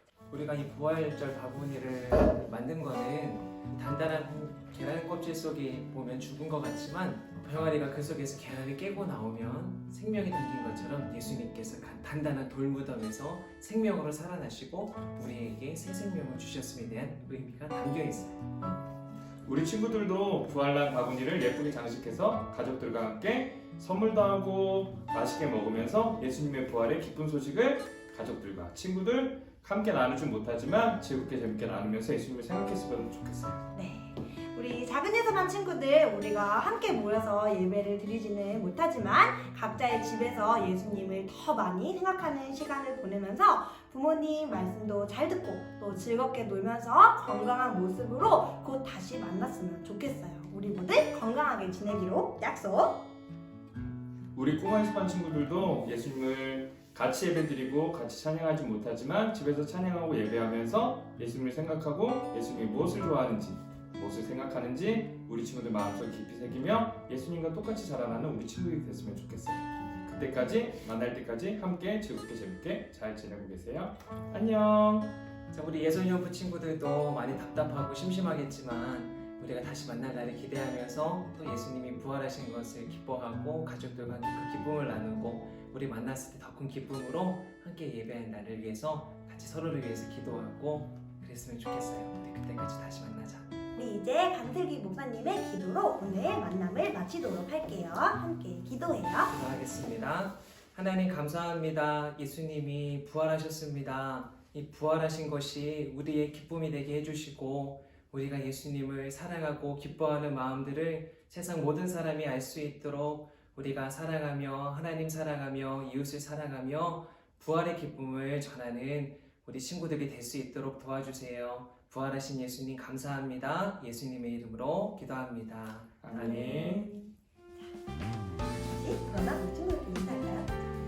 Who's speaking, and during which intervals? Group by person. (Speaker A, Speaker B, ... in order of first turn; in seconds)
Speaker A: 0.3-18.5, 75.5-93.5, 99.3-126.0
Speaker B: 19.4-33.6, 54.3-75.1, 126.0-126.9
Speaker C: 33.7-53.0, 93.7-99.3, 126.1-127.1, 128.6-130.5